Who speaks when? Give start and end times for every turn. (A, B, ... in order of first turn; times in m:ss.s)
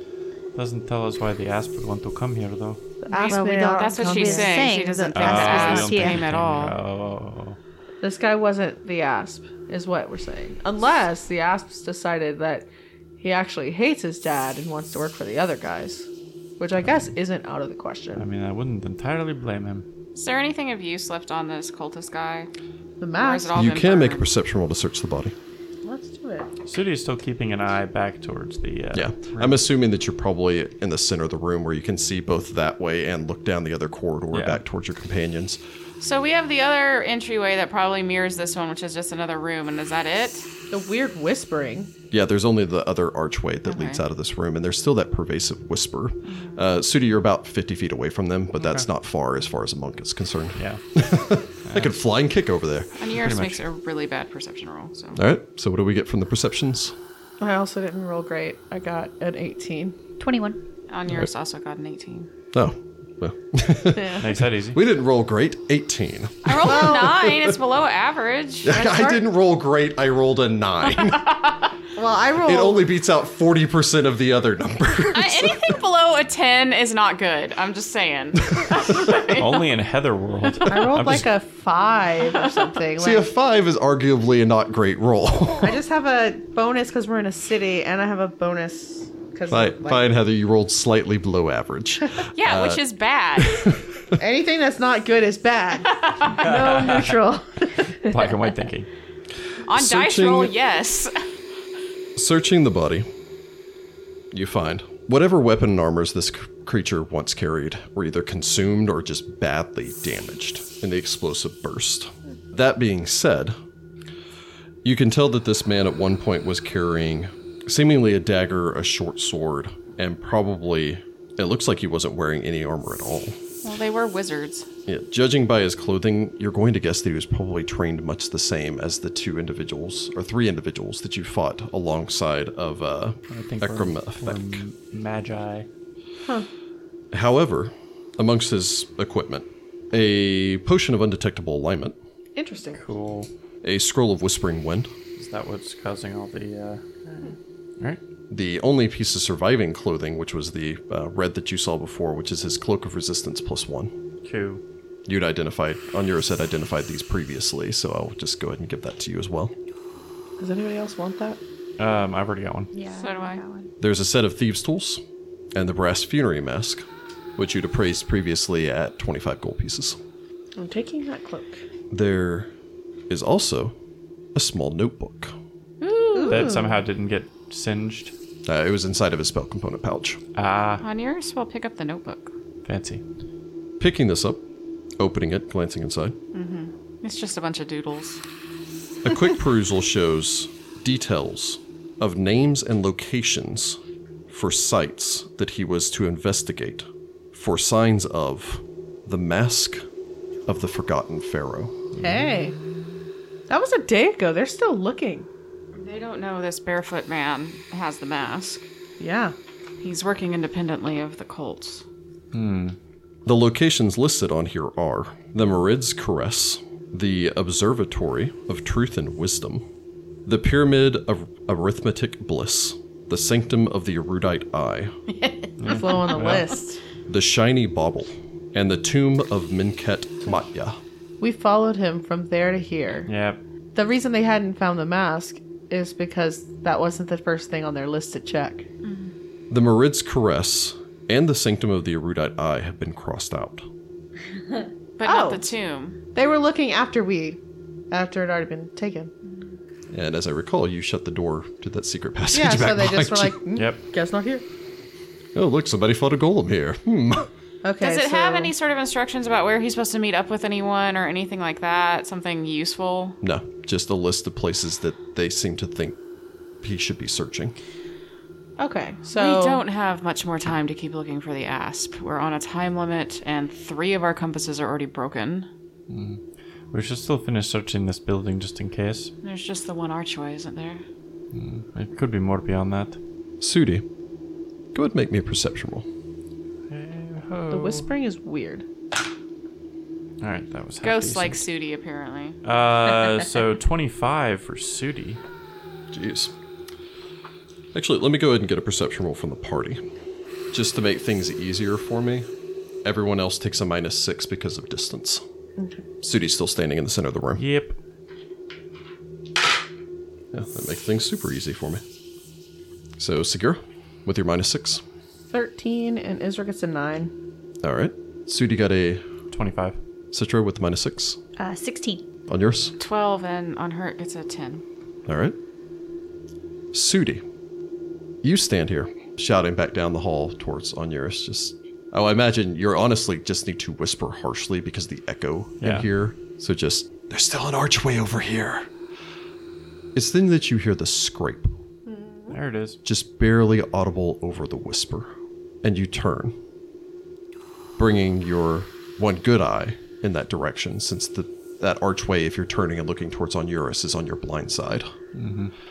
0:00.5-0:02.8 A
0:03.0-0:04.7 B
0:03.1-0:06.2 C
0:03.2-0:06.8 D
0:05.2-0:07.6 A
0:08.0-0:12.7 B
0:13.2-0:16.1 B
0:16.6-0:18.2 B
0:18.1-0:19.8 A
0:20.2-0:22.5 D
0:23.0-0:23.6 B
0:23.1-0:24.3 D
0:23.5-0:25.3 E
0:25.8-0:26.5 B
0:26.6-0:29.6 A
0:28.9-0:35.6 E
0:34.3-0:34.6 A
0:36.0-0:40.5 D
0:40.7-0:41.9 B
0:42.1-0:53.0 E
0:43.7-0:44.0 D
0:46.3-0:46.6 D
0:51.6-0:51.9 A
0:53.0-0:55.2 D
0:53.1-0:53.6 A
0:55.1-0:56.9 E
0:57.4-1:00.0 B
1:00.2-1:00.6 C
1:00.9-1:02.3 D
1:02.5-1:07.6 E
1:03.9-1:04.2 B
1:04.2-1:04.8 A
1:06.4-1:09.2 D
1:06.6-1:07.3 B
1:08.6-1:11.4 E
1:11.0-1:11.7 D
1:11.9-1:12.9 B
1:12.4-1:15.8 E
1:15.1-1:19.7 D
1:19.3-1:21.3 A
1:20.7-1:23.2 B
1:22.3-1:22.6 D
1:23.0-1:25.8 E
1:25.6-1:30.0 B
1:29.5-1:32.8 E
1:32.3-1:33.7 D
1:33.4-1:34.2 E
1:34.2-1:38.1 B
1:35.9-1:36.5 D
1:36.5-1:37.1 A
1:38.0-1:38.9 A
1:39.6-1:41.1 D
1:39.7-1:40.5 E
1:42.2-1:43.1 E
1:44.3-1:53.6 E
1:54.8-2:03.4 E
2:03.6-2:04.7 D
2:04.9-2:14.6 E
2:13.3-2:15.7 A
2:17.1-2:22.0 E
2:22.4-2:22.8 B
2:22.8-2:23.3 A
2:23.6-2:24.9 E
2:25.2-2:26.8 A
2:28.3-2:33.9 E
2:34.2-2:34.6 A
2:35.0-2:39.5 E
2:40.4-2:41.4 B
2:41.8-2:42.7 A
2:42.7-2:43.7 C
2:43.0-2:43.4 D
2:43.8-2:45.0 E
2:45.5-2:50.0 E
2:50.6-2:51.6 B
2:51.9-2:52.5 E
2:53.1-2:53.7 E
2:54.3-2:55.3 E
2:55.8-2:56.8 B
2:56.2-2:58.1 A
2:58.5-3:00.2 E
3:00.4-3:00.8 A
3:00.8-3:02.3 D
3:02.6-3:03.0 A
3:03.8-3:04.4 E
3:05.0-3:06.2 E
3:06.3-3:08.2 D
3:09.0-3:19.8 E
3:20.5-3:21.8 E
3:21.9-3:22.9 A
3:22.0-3:22.6 B
3:23.5-3:25.3 B
3:25.7-3:28.7 D
3:29.0-3:29.3 B
3:29.8-3:31.8 D
3:32.3-3:32.8 A
3:33.2-3:39.6 E
3:40.2-3:45.0 E
3:45.1-3:46.2 D
3:45.6-3:46.5 A
3:45.6-3:46.8 B
3:47.1-3:50.8 E
3:51.2-3:53.1 B
3:53.1-3:53.4 A
3:53.7-3:58.7 B
3:58.8-3:59.1 D
3:59.5-4:03.6 E
4:05.0-4:06.0 D
4:05.0-4:05.4 B
4:06.1-4:07.4 B
4:07.9-4:09.1 B
4:09.9-4:13.4 E
4:12.3-4:14.4 B
4:13.5-4:13.8 A
4:15.3-4:17.3 E
4:17.6-4:18.5 B
4:17.8-4:23.2 D
4:23.2-4:26.0 E
4:26.6-4:27.6 E
4:28.6-4:29.6 B
4:29.1-4:35.5 D
4:35.9-4:36.2 A
4:36.7-4:39.1 A
4:39.2-4:40.8 D
4:41.3-4:43.0 A
4:43.4-4:43.8 E
4:44.7-4:45.9 E
4:46.7-4:47.9 A
4:47.5-4:48.6 B
4:50.2-4:51.4 A
4:50.8-4:52.4 D
4:52.4-4:55.2 A
4:55.9-4:56.3 E
4:57.7-4:59.8 E
5:00.5-5:02.2 E
5:02.8-5:05.2 E
5:05.6-5:05.8 B
5:06.0-5:07.4 E
5:07.4-5:07.8 A
5:10.3-5:11.8 E
5:13.0-5:14.8 E
5:15.3-5:17.1 B
5:17.6-5:19.0 E
5:19.3-5:19.8 A
5:20.1-5:21.2 E
5:21.4-5:22.0 C
5:22.3-5:22.7 E
5:22.8-5:24.6 D
5:25.1-5:25.4 E
5:26.7-5:27.2 E
5:28.2-5:38.7 E
5:35.6-5:35.9 A
5:39.9-5:41.5 E
5:41.8-5:42.4 B
5:42.3-5:42.8 A
5:42.8-5:45.1 E
5:45.6-5:46.4 E
5:47.8-5:54.9 E
5:55.1-5:55.5 A